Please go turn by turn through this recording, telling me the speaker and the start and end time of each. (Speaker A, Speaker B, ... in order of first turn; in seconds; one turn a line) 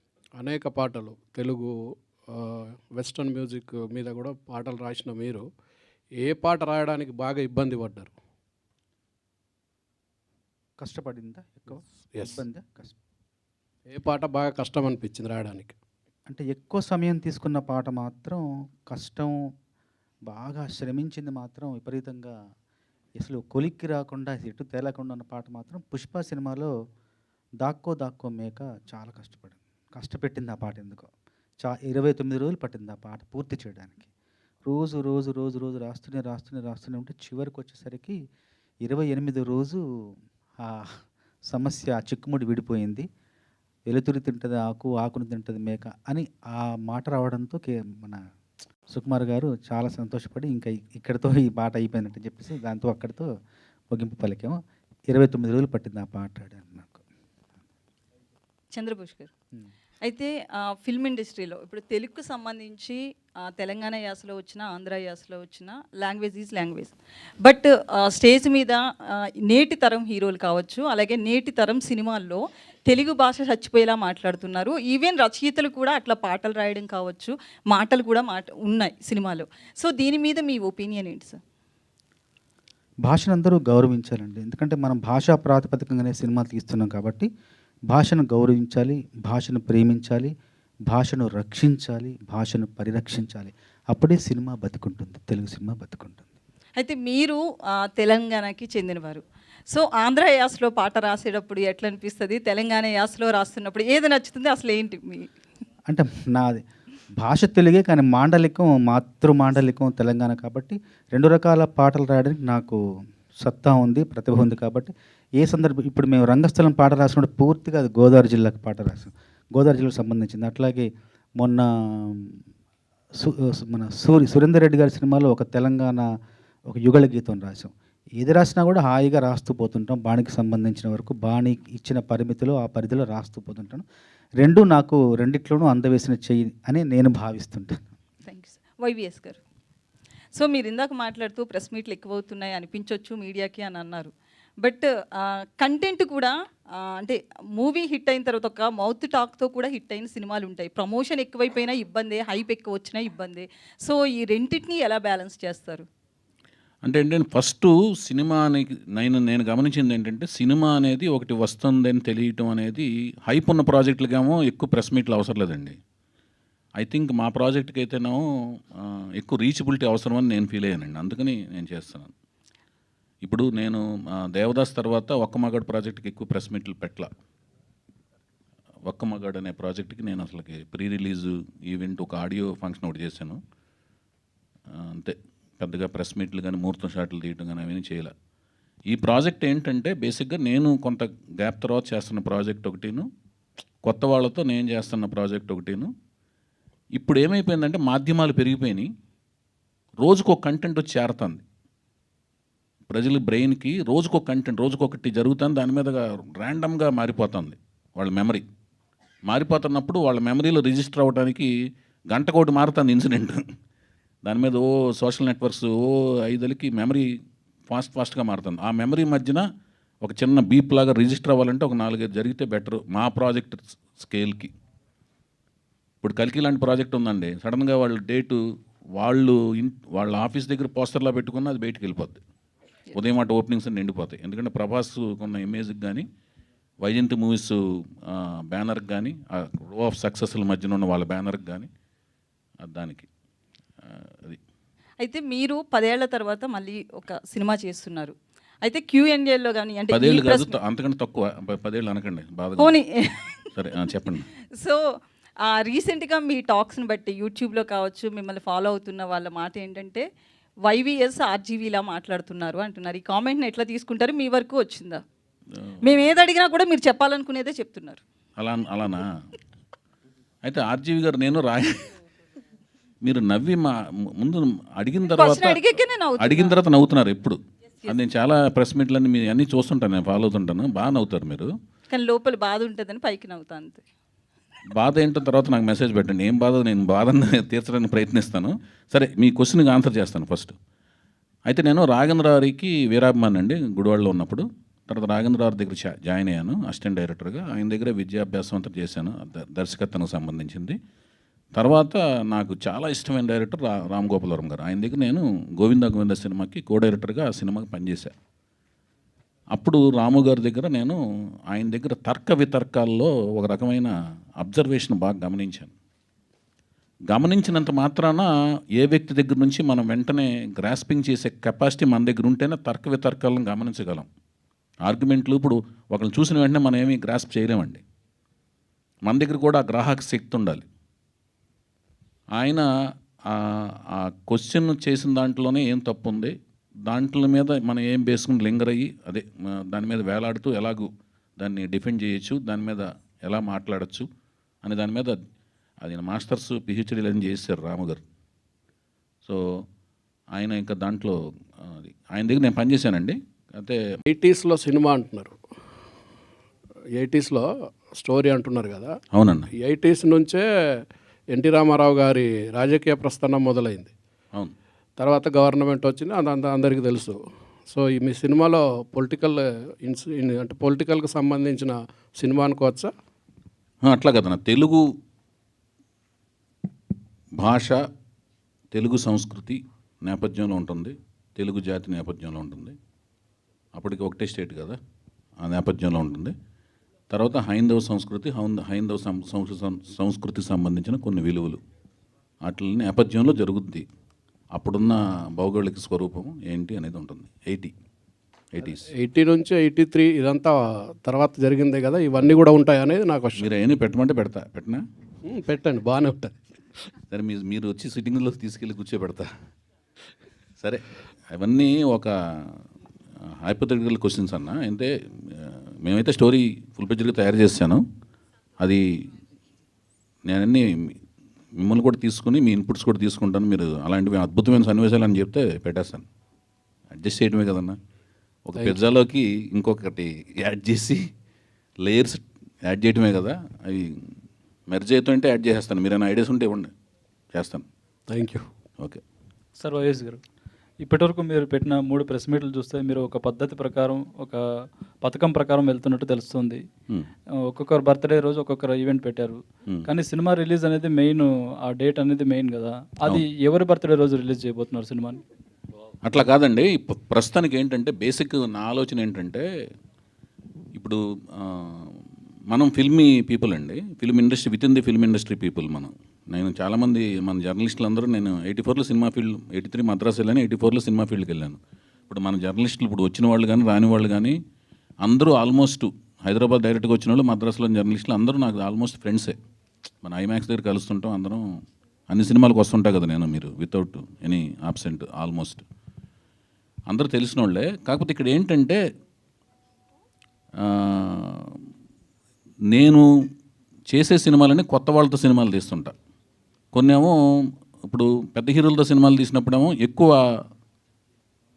Speaker A: 0.4-1.7
Speaker A: 2.3-5.4
Speaker A: 6.2-8.1
Speaker B: 10.8-12.9
Speaker A: 12.1-12.4
Speaker A: 13.9-15.8
Speaker B: 16.3-19.3
Speaker B: 20.3-22.3
Speaker B: 23.2-26.7
Speaker B: 27.6-31.1
Speaker B: 31.6-34.1
Speaker B: 34.6-38.2
Speaker B: 38.8-39.8
Speaker B: 40.6-43.0
Speaker B: 43.9-48.2
Speaker B: 48.9-53.3
Speaker B: 53.9-54.6
Speaker B: 55.1-57.0
Speaker C: 58.7-59.3
Speaker C: 60.0-66.9
Speaker C: 67.4-68.8
Speaker C: 69.5-81.4
Speaker B: 83.0-87.3
Speaker B: 87.9-90.3
Speaker B: 90.9-96.2
Speaker C: 96.8-97.4
Speaker C: 97.9-105.3
Speaker B: 105.9-106.6
Speaker B: 107.2-112.8
Speaker B: 113.4-122.4
Speaker B: 123.2-126.1
Speaker B: 126.7-133.8
Speaker B: 134.4-137.8
Speaker C: 138.2-139.4
Speaker C: 140.3-144.1
Speaker C: 144.6-146.3
Speaker C: 146.9-155.8
Speaker D: 156.8-165.8
Speaker D: 166.8-172.1
Speaker D: 173.2-177.1
Speaker D: 178.8-183.4
Speaker D: 184.7-188.1
Speaker D: 188.9-193.1
Speaker D: 193.8-195.9
Speaker D: 196.9-198.9
Speaker D: 200.0-201.4
Speaker D: 202.9-208.4
Speaker D: 209.3-211.5
Speaker D: 212.1-213.4
Speaker D: 214.2-217.1
Speaker D: 217.7-219.4
Speaker D: 220.0-224.5
Speaker D: 226.0-228.4
Speaker D: 228.9-232.2
Speaker D: 232.9-236.0
Speaker D: 236.8-241.7
Speaker D: 242.6-243.1
Speaker D: 243.8-244.4
Speaker C: 245.0-250.5
Speaker D: 249.9-252.7
Speaker C: 252.6-253.4
Speaker D: 253.5-254.3
Speaker C: 255.5-260.0
Speaker C: 260.7-265.0
Speaker C: 265.8-268.0
Speaker D: 268.4-269.1
Speaker D: 270.4-271.9
Speaker D: 273.0-281.5
Speaker C: 275.1-276.5
Speaker C: 281.9-283.8
Speaker D: 284.8-290.5
Speaker D: 291.5-300.8
Speaker D: 301.6-308.1
Speaker D: 309.5-315.7
Speaker D: 317.1-324.1
Speaker D: 324.8-327.8
Speaker D: 329.0-330.6
Speaker D: 332.4-332.7
Speaker D: 333.3-336.3
Speaker D: 336.9-344.1
Speaker D: 344.6-345.1
Speaker D: 345.8-348.0
Speaker D: 349.2-349.6
Speaker D: 350.3-353.8
Speaker A: 354.1-355.4
Speaker A: 356.9-358.9
Speaker D: 359.1-359.5
Speaker A: 359.6-363.9
Speaker A: 365.0-372.9
Speaker D: 373.8-374.9
Speaker D: 377.4-377.8
Speaker D: 378.7-382.7
Speaker D: 383.7-384.8
Speaker D: 385.4-386.3
Speaker D: 387.1-391.6
Speaker D: 392.4-393.8
Speaker D: 394.5-397.7
Speaker D: 398.5-398.9
Speaker A: 398.6-403.5
Speaker D: 403.4-404.8
Speaker A: 405.2-406.4
Speaker D: 407.1-409.3
Speaker D: 410.6-412.6
Speaker D: 413.4-417.8
Speaker D: 420.3-420.9
Speaker D: 421.6-426.1
Speaker D: 426.9-427.8
Speaker D: 428.4-431.0
Speaker A: 428.5-428.8
Speaker D: 431.8-434.1
Speaker D: 434.7-436.7
Speaker D: 437.3-437.6
Speaker A: 438.1-438.4
Speaker E: 439.6-440.2
Speaker E: 440.8-444.4
Speaker E: 445.0-446.6
Speaker E: 447.5-455.2
Speaker D: 456.0-459.5
Speaker D: 460.7-471.6
Speaker D: 472.1-474.4
Speaker D: 475.0-479.4
Speaker D: 480.0-481.4
Speaker D: 482.1-485.6
Speaker D: 486.9-488.8
Speaker D: 490.6-491.6
Speaker D: 492.7-493.1
Speaker D: 493.9-495.9
Speaker D: 496.7-497.1
Speaker D: 497.9-500.2